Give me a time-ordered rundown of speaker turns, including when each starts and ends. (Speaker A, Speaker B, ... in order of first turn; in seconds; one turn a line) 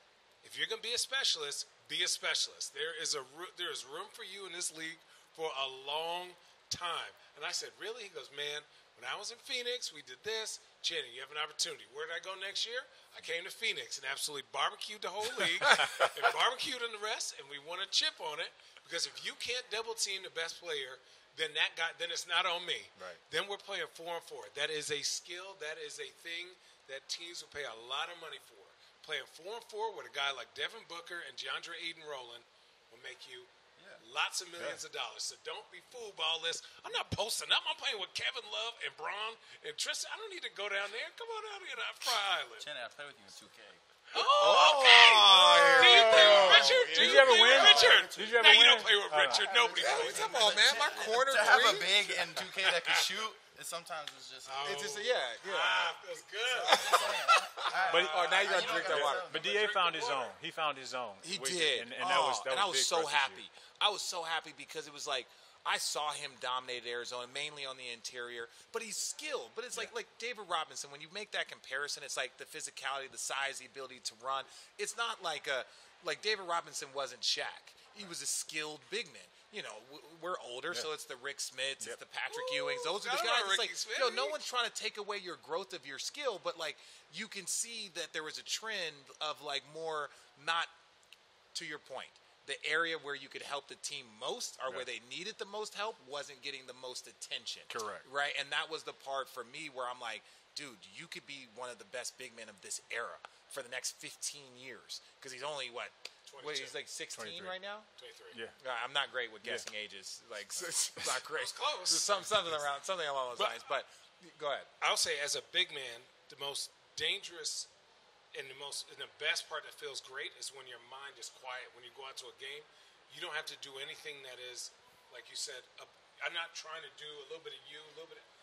Speaker A: 0.4-42.7
Speaker B: 15.6-16.1
Speaker C: 15.8-16.1
Speaker D: 33.8-34.0
Speaker D: 42.6-43.9
Speaker A: 44.1-50.9
Speaker B: 44.1-47.9
Speaker C: 45.6-49.6
Speaker D: 46.0-54.9
Speaker B: 49.7-52.2
Speaker A: 54.5-60.3
Speaker B: 54.6-56.0
Speaker B: 56.6-59.3
Speaker D: 56.6-59.8
Speaker C: 57.9-63.4
Speaker B: 61.2-90.7
Speaker A: 82.3-84.4
Speaker B: 91.5-107.9
Speaker C: 97.7-98.0
Speaker A: 106.3-106.8
Speaker C: 107.1-107.5
Speaker A: 108.0-108.4
Speaker C: 108.3-108.6
Speaker B: 108.6-114.7
Speaker A: 111.3-112.4
Speaker A: 114.8-117.7
Speaker A: 118.3-128.2